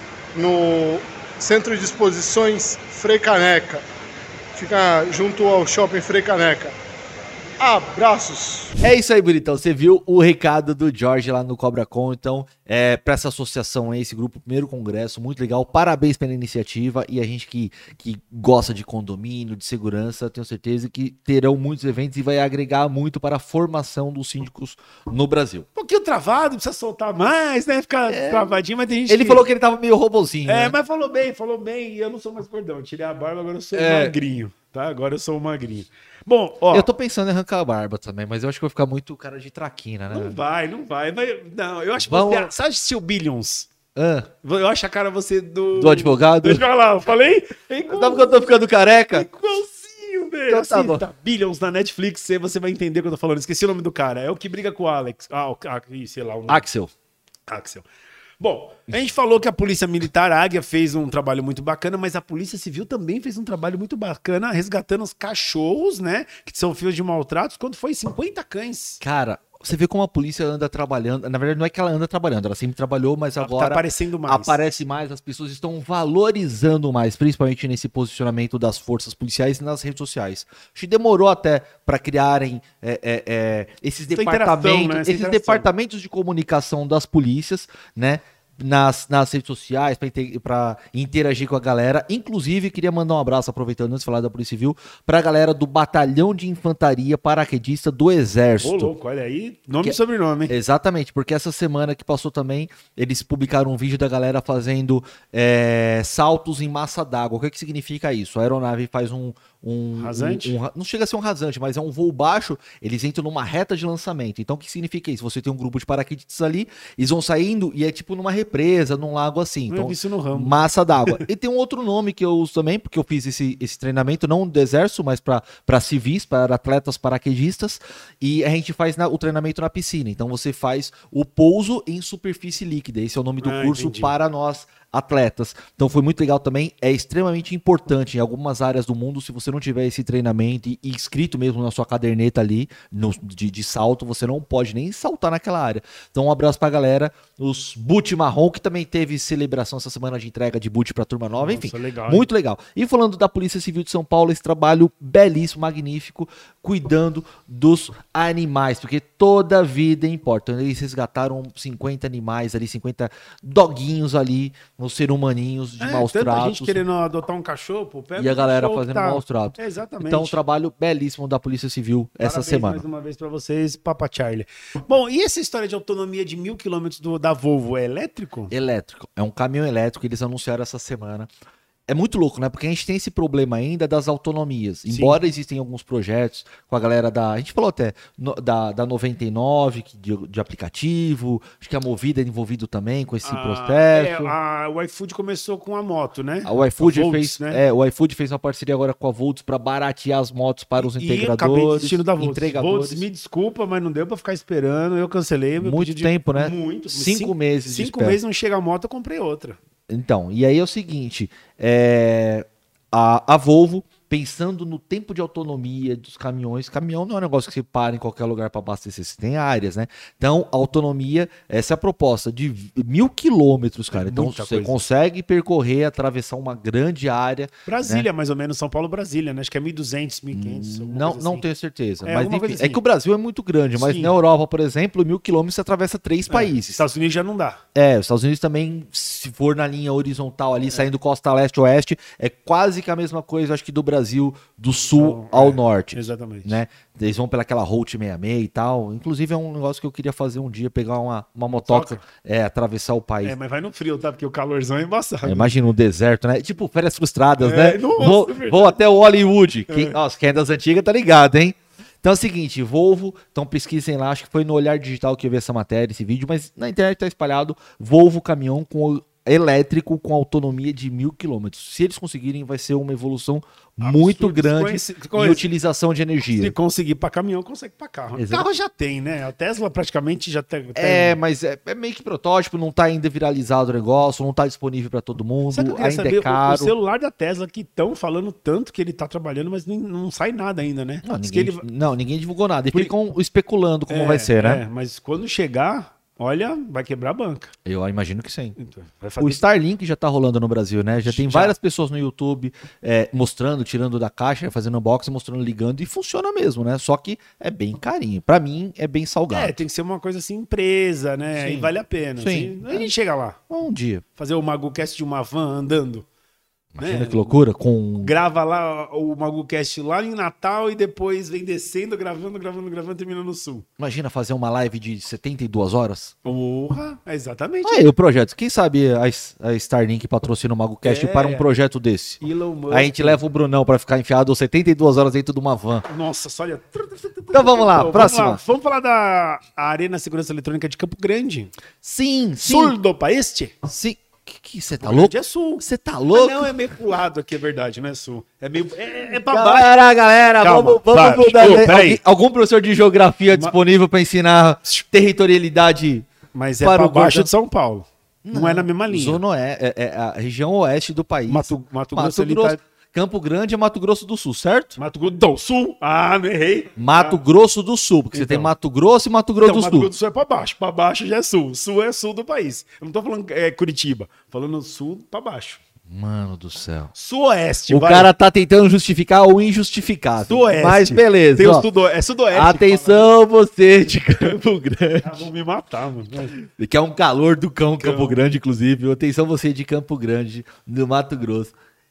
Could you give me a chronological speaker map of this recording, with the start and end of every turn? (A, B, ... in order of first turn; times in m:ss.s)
0:00.4-0:03.8 A
0:04.6-0:06.7 A
0:07.6-0:08.8 A
0:08.8-0:25.7 B
0:25.8-0:29.4 C
0:28.1-0:30.8 B
0:30.5-0:36.9 C
0:33.7-0:34.2 B
0:36.7-0:40.4 B
0:40.1-0:43.7 C
0:42.0-0:42.5 B
0:44.0-0:44.3 B
0:44.4-0:48.6 C
0:45.8-0:46.6 B
0:47.9-0:49.3 B
0:49.1-0:56.6 C
0:50.5-0:51.1 B
0:56.5-0:56.9 B
0:57.5-0:57.8 C
0:58.4-1:09.0 C
1:09.0-1:38.9 B
1:13.4-1:14.6 C
1:24.1-1:25.7 C
1:38.6-1:40.5 C
1:40.5-2:46.8 B
1:50.0-1:50.6 C
1:59.7-2:01.2 C
2:13.4-2:14.2 C
2:31.4-2:32.3 C
2:45.8-2:50.4 C
2:48.2-2:52.8 B
2:52.2-2:58.5 C
2:58.5-3:01.3 B
3:01.9-3:14.3 B
3:04.9-3:05.2 C
3:13.2-3:17.6 C
3:16.4-3:23.0 B
3:20.8-3:29.6 C
3:25.6-3:28.2 B
3:29.9-3:48.1 B
3:43.9-3:44.8 C
3:47.7-3:51.5 C
3:50.3-3:56.8 B
3:52.0-3:52.8 C
3:53.8-3:54.2 C
3:56.3-3:57.6 C
3:57.8-4:13.4 B
4:04.9-4:06.6 C
4:11.6-4:12.0 C
4:13.2-4:15.6 C
4:15.2-4:36.5 B
4:17.4-4:18.8 C
4:19.7-4:20.0 C
4:33.8-4:35.5 C
4:36.4-4:41.2 C
4:38.2-4:38.5 B
4:40.8-4:46.7 B
4:45.5-4:51.6 C
4:51.0-4:54.6 B
4:53.9-4:57.5 C
4:57.7-4:58.6 B
4:58.6-4:59.4 C
4:59.2-5:09.6 B
5:01.0-5:01.6 C
5:09.3-5:13.4 C
5:11.4-5:12.9 B
5:13.5-5:14.0 B
5:14.2-5:16.1 C
5:16.8-5:18.2 B
5:16.8-5:17.4 C
5:18.0-5:23.7 C
5:23.8-5:26.2 B
5:26.2-5:27.9 C
5:27.6-5:35.9 B
5:30.8-5:31.4 C
5:32.2-5:33.2 C
5:35.9-5:41.5 C
5:37.3-5:38.4 B
5:41.8-5:42.8 B
5:42.4-5:43.5 C
5:43.6-5:46.5 B
5:44.8-5:49.7 C
5:49.2-5:56.1 B
5:50.4-5:52.0 C
5:56.3-5:59.2 C
5:56.6-5:57.3 B
5:58.2-6:04.8 B
6:01.3-6:02.6 C
6:04.8-6:07.2 C
6:06.8-6:09.9 B
6:08.1-6:08.5 C
6:09.4-6:15.6 C
6:15.9-6:16.9 B
6:17.0-6:18.1 C
6:17.7-6:21.7 B
6:20.2-6:23.1 C
6:22.3-6:25.2 B
6:25.0-6:26.4 C
6:26.4-6:31.5 B
6:27.8-6:28.3 C